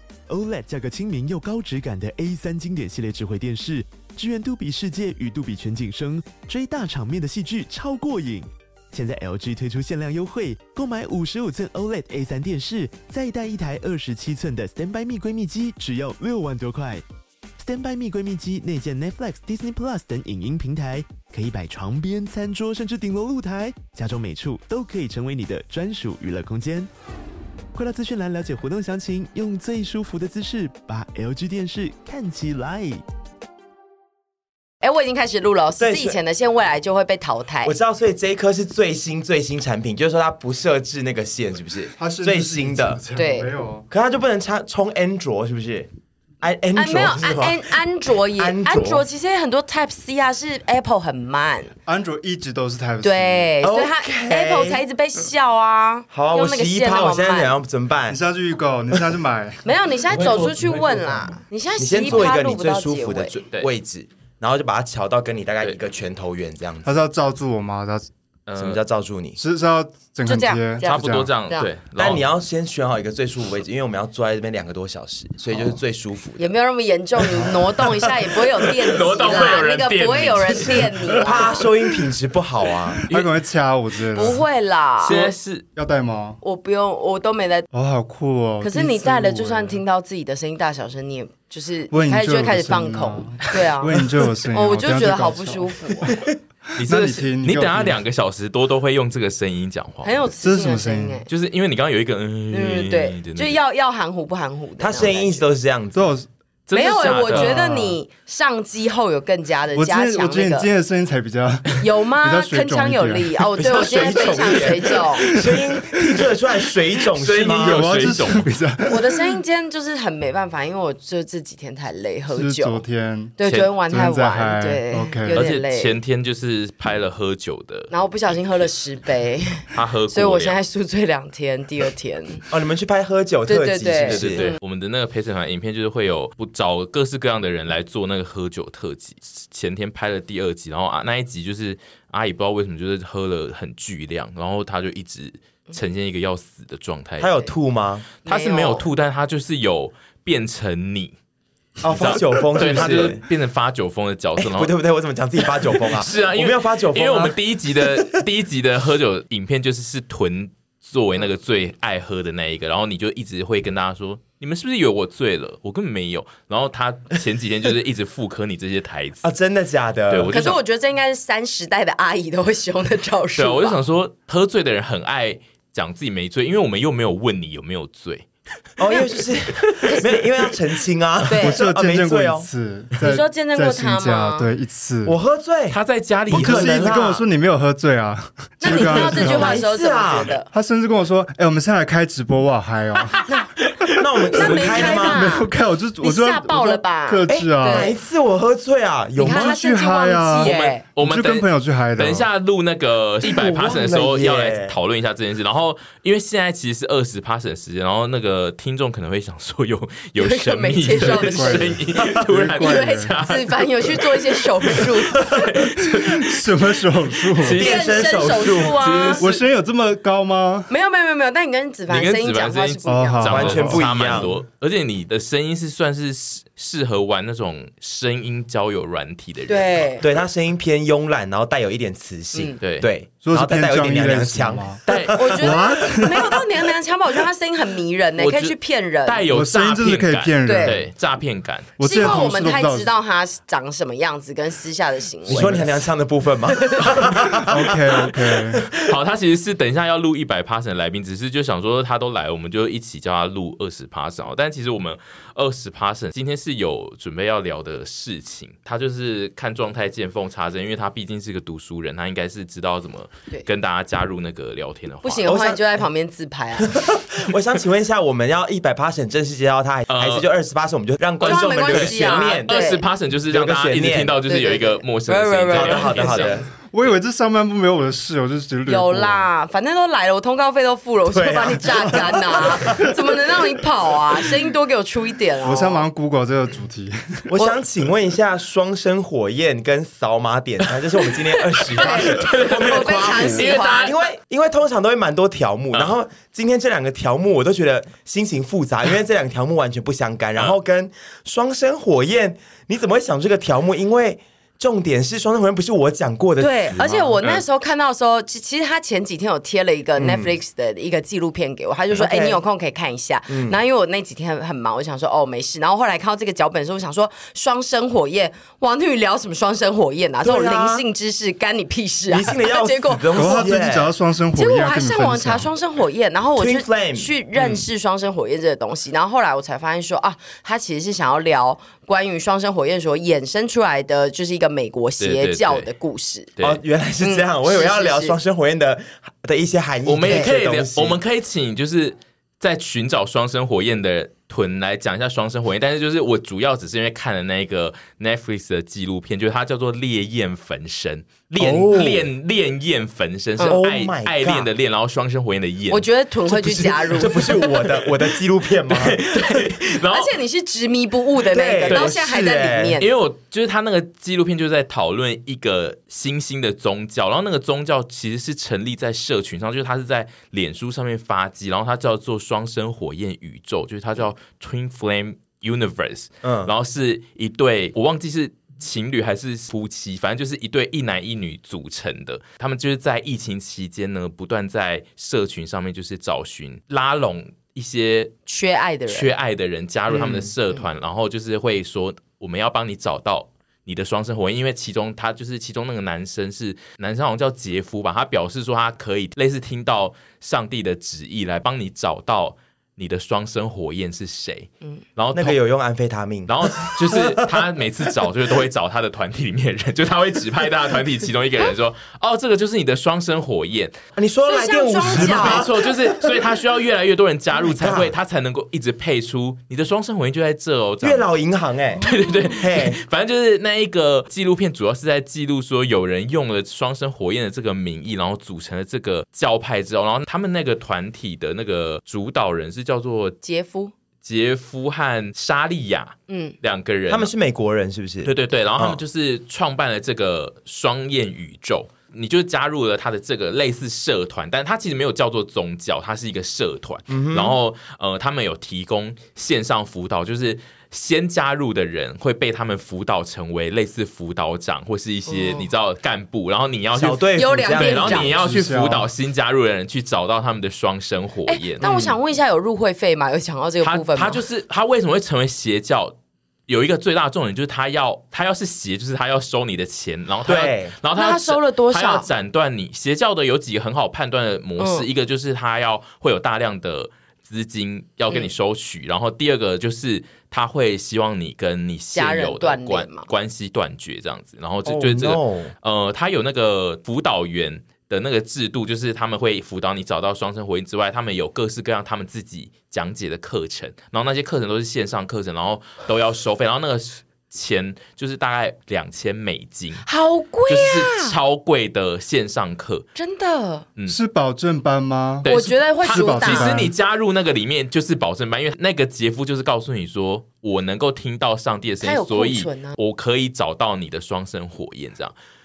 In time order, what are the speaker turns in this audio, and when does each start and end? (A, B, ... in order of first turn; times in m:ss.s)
0:00.3-0:17.0 A
0:17.6-0:26.9 A
0:27.7-0:33.0 A
0:34.8-0:37.7 B
0:35.8-0:36.2 C
0:37.6-0:43.0 C
0:42.0-0:43.8 D
0:43.1-0:43.5 B
0:43.9-0:45.9 C
0:46.4-0:47.7 C
0:46.7-0:51.7 B
0:48.4-0:49.0 C
0:51.8-0:53.5 D
0:53.0-0:57.5 B
0:53.6-0:54.8 C
0:56.1-0:58.2 C
0:58.1-0:59.6 D
0:58.9-0:59.2 C
0:59.6-1:03.3 B
1:00.1-1:01.2 C
1:00.3-1:01.3 D
1:01.8-1:07.0 C
1:06.8-1:08.1 D
1:08.5-1:08.8 E
1:08.6-1:09.4 C
1:09.4-1:11.3 D
1:10.2-1:11.7 B
1:10.8-1:12.2 E
1:12.0-1:16.5 C
1:16.4-1:21.7 B
1:17.4-1:18.4 C
1:18.9-1:21.2 E
1:19.2-1:19.6 C
1:21.2-1:23.1 C
1:23.0-1:24.4 D
1:24.1-1:25.2 B
1:25.0-1:25.6 E
1:25.1-1:26.4 D
1:26.4-1:27.7 B
1:27.7-1:29.8 D
1:28.6-1:36.1 B
1:31.9-1:38.0 D
1:36.8-1:40.2 E
1:40.0-1:41.3 B
1:40.4-1:41.2 D
1:41.3-1:43.6 E
1:42.5-1:45.4 B
1:44.8-1:46.1 C
1:45.9-1:46.3 D
1:46.7-1:47.5 E
1:46.7-1:50.7 B
1:47.2-1:48.0 D
1:49.7-1:53.3 D
1:51.8-1:55.3 B
1:53.6-1:57.8 C
1:54.0-1:56.3 D
1:57.2-1:58.5 E
1:57.5-1:59.2 D
1:58.9-2:02.8 B
2:02.3-2:05.4 D
2:03.4-2:05.9 B
2:05.3-2:08.7 E
2:07.9-2:12.4 B
2:09.7-2:10.6 E
2:12.5-2:14.5 C
2:13.5-2:14.6 B
2:14.0-2:27.3 E
2:27.2-2:28.1 C
2:28.2-2:28.8 B
2:28.2-2:31.1 E
2:31.8-2:33.2 C
2:31.8-2:34.7 E
2:34.4-2:37.4 C
2:35.5-2:49.3 E
2:38.0-2:38.2 C
2:49.2-2:50.6 C
2:50.1-2:50.6 E
2:50.3-2:53.8 B
2:53.4-2:58.3 E
2:58.8-3:02.5 C
2:59.5-2:59.9 E
2:59.8-3:00.2 B
3:01.3-3:01.6 B
3:01.4-3:05.2 D
3:03.0-3:04.5 B
3:05.0-3:05.8 C
3:05.7-3:07.2 E
3:06.3-3:07.2 C
3:06.3-3:09.6 D
3:08.6-3:10.5 B
3:08.7-3:10.3 C
3:10.5-3:13.3 D
3:13.1-3:13.5 E
3:14.0-3:15.3 C
3:14.3-3:17.9 D
3:14.3-3:17.9 B
3:17.3-3:19.6 C
3:19.2-3:20.8 B
3:19.2-3:22.3 D
3:20.4-3:36.8 E
3:23.2-3:24.8 C
3:30.2-3:31.9 B
3:30.9-3:33.1 D
3:32.6-3:35.3 B
3:35.8-3:37.7 D
3:37.3-3:39.4 E
3:37.4-3:39.2 C
3:37.6-3:39.2 B
3:39.2-3:40.7 D
3:40.7-3:43.5 B
3:41.9-3:49.9 E
3:42.8-3:44.3 D
3:43.3-3:44.4 C
3:49.5-3:50.0 B
3:50.0-3:55.6 C
3:52.6-3:52.9 E
3:53.2-3:54.8 D
3:54.8-3:55.2 E
3:55.1-3:59.3 B
3:55.3-3:56.4 D
3:58.2-4:02.2 E
3:59.3-4:00.8 D
4:00.4-4:00.8 B
4:01.8-4:02.9 D
4:01.8-4:05.8 B
4:05.2-4:08.8 C
4:06.5-4:07.1 B
4:07.4-4:08.6 D
4:08.8-4:25.3 E
4:25.0-4:26.7 B
4:25.2-4:25.6 C
4:26.6-4:32.6 C
4:29.9-4:30.2 E
4:31.2-4:36.4 E
4:31.2-4:32.8 B
4:33.3-4:34.2 C
4:34.3-4:36.4 B
4:35.5-4:36.5 C
4:36.7-4:39.3 D
4:38.6-4:45.8 B
4:41.0-4:42.9 C
4:41.7-4:42.8 D
4:45.4-4:47.3 D
4:47.3-5:07.2 C
4:51.1-4:53.9 E
4:51.8-4:53.9 B
5:06.4-5:23.6 B
5:10.0-5:10.3 C
5:11.9-5:12.4 C
5:13.3-5:13.6 C
5:20.2-5:20.8 C
5:22.1-5:23.9 C
5:23.2-5:25.5 D
5:24.3-5:36.3 B
5:26.4-5:27.1 C
5:35.0-5:35.7 E
5:36.4-5:41.0 C
5:37.0-5:38.2 B
5:39.8-5:55.9 E
5:51.4-5:52.1 C
5:53.5-5:54.5 C
5:55.7-5:57.6 B
5:56.4-5:59.0 C
5:57.0-5:57.6 E
5:58.7-6:00.2 E
5:59.1-6:02.9 B
6:01.2-6:02.8 C
6:01.7-6:02.0 E
6:02.8-6:28.1 E
6:16.2-6:16.5 C
6:28.3-6:29.1 B
6:28.9-6:45.4 E
6:29.9-6:30.3 C
6:45.1-6:47.4 C
6:46.3-6:53.7 E
6:54.0-6:56.2 C
6:54.2-6:55.4 B
6:54.8-7:01.0 E
6:57.4-6:57.9 C
7:00.8-7:02.8 C
7:01.8-7:13.2 E
7:13.2-7:13.7 B
7:14.0-7:17.1 E
7:16.1-7:16.3 B
7:16.9-7:18.8 C
7:18.0-7:41.6 E
7:26.9-7:27.4 C
7:35.1-7:35.4 B
7:36.7-7:38.3 C
7:37.1-7:38.1 B
7:38.2-7:38.9 D
7:41.3-7:44.2 B
7:41.6-7:42.0 C
7:43.6-7:46.0 E
7:46.5-8:19.8 E
7:50.2-7:50.7 C
7:50.9-7:52.1 B
7:54.6-7:54.9 B
8:01.9-8:03.1 B
8:04.6-8:05.5 C
8:19.8-8:21.1 B
8:20.5-8:22.8 E
8:23.0-8:23.6 B
8:23.9-8:25.3 D
8:25.2-8:35.1 E
8:25.2-8:26.5 B
8:25.8-8:26.7 D
8:31.8-8:32.8 B